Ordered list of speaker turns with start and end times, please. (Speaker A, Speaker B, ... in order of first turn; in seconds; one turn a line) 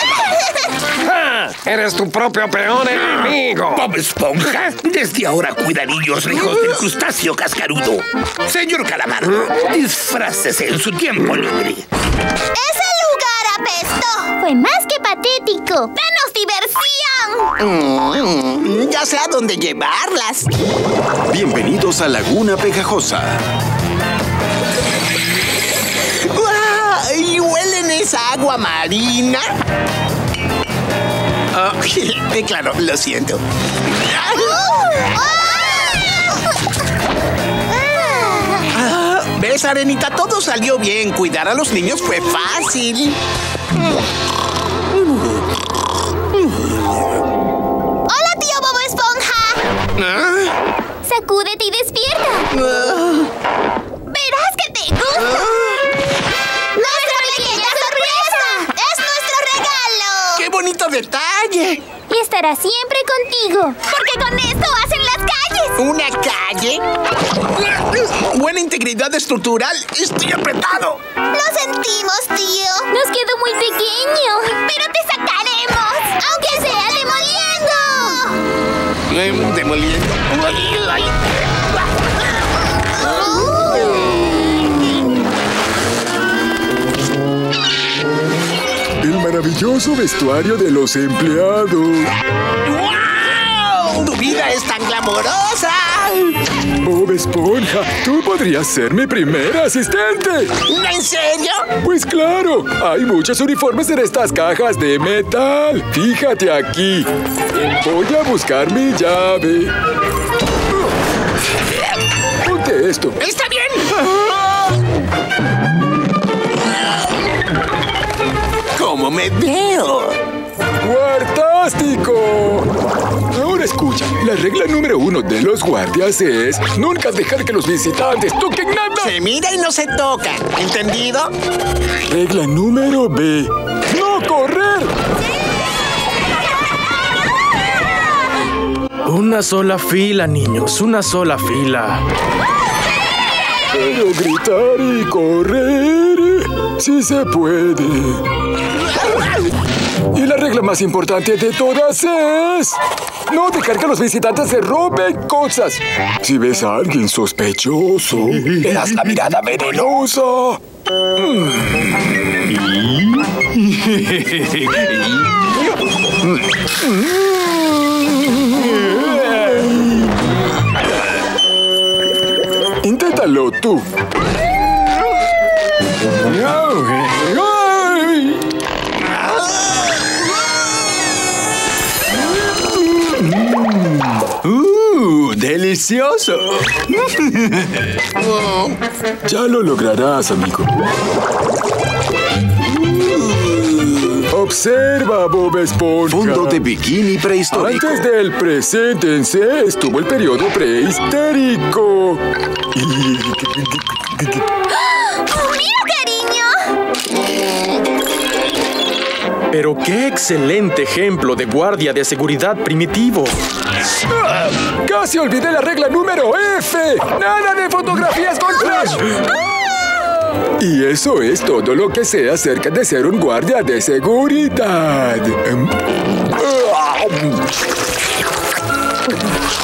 Speaker A: 1.0-3.9
Speaker B: 3.7-11.9
Speaker C: 12.5-17.5
Speaker D: 17.6-20.5
Speaker E: 21.3-23.4
Speaker D: 26.3-29.5
Speaker D: 31.5-33.4
Speaker D: 34.2-34.6
Speaker C: 34.3-36.1
Speaker C: 37.7-38.6
Speaker D: 38.7-43.2
Speaker C: 48.1-49.6
Speaker C: 51.0-52.5
Speaker C: 54.1-55.5
Speaker C: 56.7-60.5
Speaker D: 60.4-61.8
Speaker C: 62.1-65.8
Speaker D: 65.8-66.8
Speaker D: 67.6-71.0
Speaker C: 71.3-78.4
Speaker D: 79.1-80.4
Speaker C: 83.0-84.0
Speaker F: 89.0-92.1
Speaker D: 92.7-96.4
Speaker F: 96.8-100.5
Speaker D: 100.7-101.7
Speaker F: 101.8-107.1
Speaker F: 107.8-109.7
Speaker F: 112.4-113.2
Speaker D: 113.2-114.1
Speaker D: 118.8-120.1
Speaker F: 120.8-122.7
Speaker F: 123.3-129.1
Speaker D: 129.0-131.3
Speaker F: 132.1-134.9
Speaker G: 140.7-141.4
Speaker F: 143.7-148.2
Speaker F: 150.1-160.6
Speaker F: 168.6-169.8
Speaker F: 172.8-173.9
Speaker F: 176.3-178.4
Speaker F: 184.4-186.4
Speaker F: 189.2-190.7
Speaker F: 194.3-196.6
Speaker E: 196.1-198.1
Speaker F: 197.5-204.4
Speaker C: 205.1-206.6
Speaker G: 209.5-213.4
Speaker F: 214.2-219.2
Speaker F: 220.6-225.8
Speaker F: 226.4-227.4